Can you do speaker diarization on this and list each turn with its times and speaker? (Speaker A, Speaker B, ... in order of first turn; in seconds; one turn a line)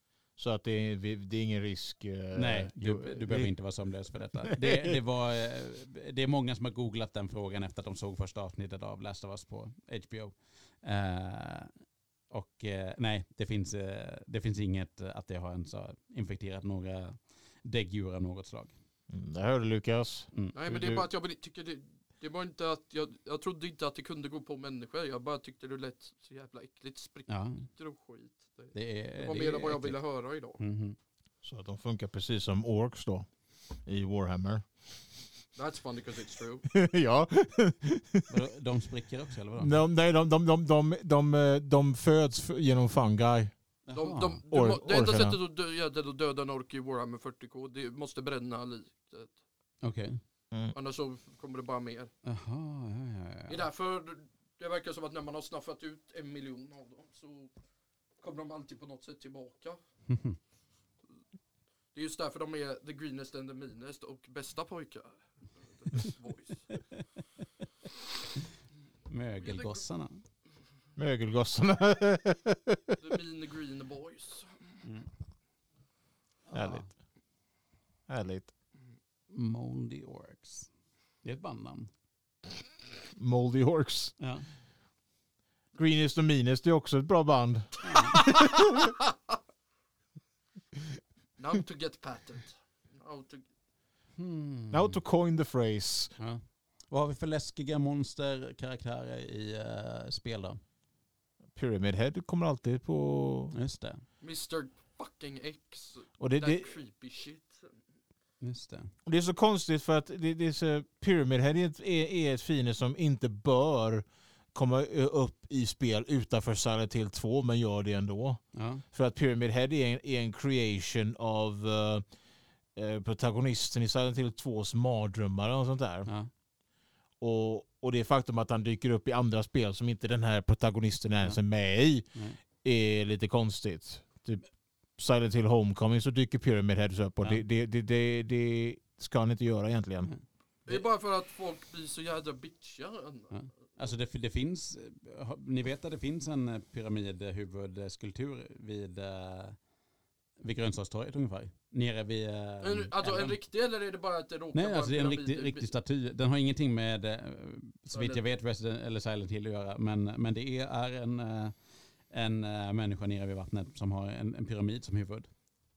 Speaker A: 0.4-3.5
Speaker B: 2.3-11.7
Speaker A: 4.4-5.0
Speaker B: 12.3-18.8
Speaker A: 19.1-21.1
Speaker C: 20.6-30.6
Speaker B: 27.3-27.7
Speaker B: 28.7-30.0
Speaker B: 30.6-31.0
Speaker A: 31.4-33.3
Speaker A: 33.9-34.6
Speaker C: 35.5-36.7
Speaker A: 36.7-38.4
Speaker B: 38.3-39.8
Speaker A: 39.6-43.5
Speaker B: 43.9-44.4
Speaker C: 44.0-49.4
Speaker A: 44.5-45.4
Speaker B: 49.8-50.2
Speaker C: 50.7-52.1
Speaker B: 52.2-53.6
Speaker C: 53.5-57.5
Speaker C: 58.2-59.8
Speaker B: 60.1-60.4
Speaker C: 61.9-65.2
Speaker C: 65.7-66.7
Speaker B: 69.1-70.2
Speaker C: 69.4-69.8
Speaker A: 71.0-73.0
Speaker C: 73.0-74.5
Speaker B: 74.8-75.1
Speaker B: 76.5-76.8
Speaker A: 76.5-76.8
Speaker A: 78.1-78.5
Speaker B: 79.3-80.7
Speaker B: 81.2-81.9
Speaker A: 83.2-84.2
Speaker B: 84.2-84.5
Speaker A: 85.8-88.9
Speaker B: 87.8-88.2
Speaker C: 88.2-89.1
Speaker C: 91.4-93.5
Speaker B: 94.2-95.0
Speaker A: 94.7-96.1
Speaker B: 96.2-100.6
Speaker A: 101.5-103.5
Speaker B: 103.5-104.0
Speaker C: 104.2-107.6
Speaker A: 106.2-106.7
Speaker B: 108.4-108.9
Speaker A: 109.0-122.0
Speaker B: 118.5-118.8
Speaker A: 122.8-126.1
Speaker A: 127.2-134.4
Speaker B: 132.1-132.4
Speaker A: 135.0-140.1
Speaker B: 140.1-140.8
Speaker C: 140.7-143.3
Speaker B: 143.3-149.6
Speaker B: 150.4-153.4
Speaker C: 152.6-155.7
Speaker B: 154.5-165.3
Speaker C: 157.9-158.2